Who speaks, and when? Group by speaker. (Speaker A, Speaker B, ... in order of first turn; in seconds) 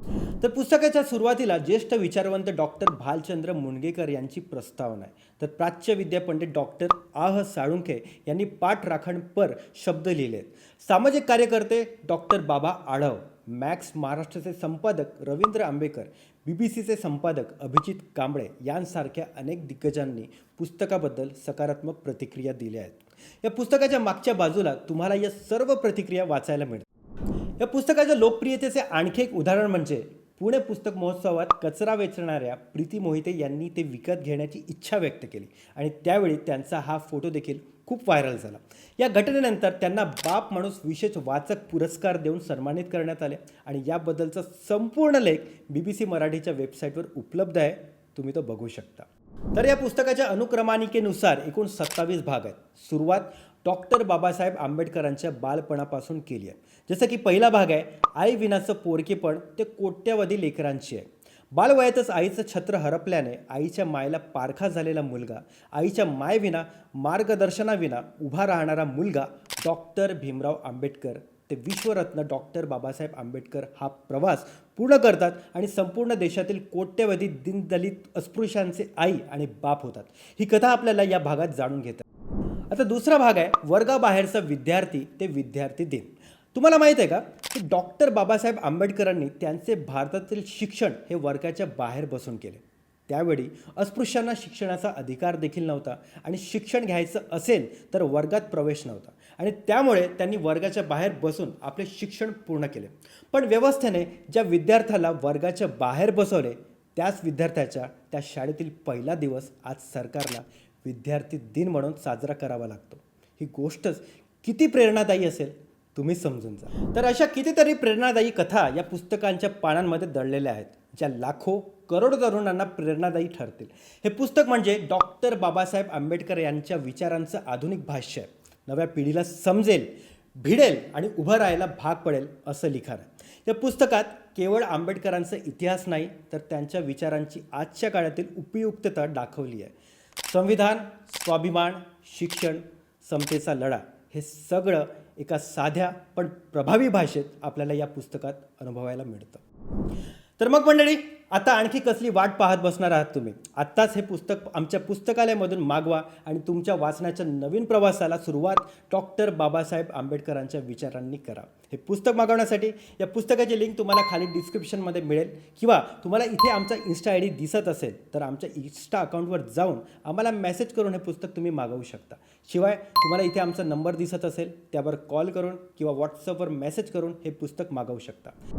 Speaker A: 0.4-26.9, 27.6-82.0, 82.7-149.4, 150.4-178.3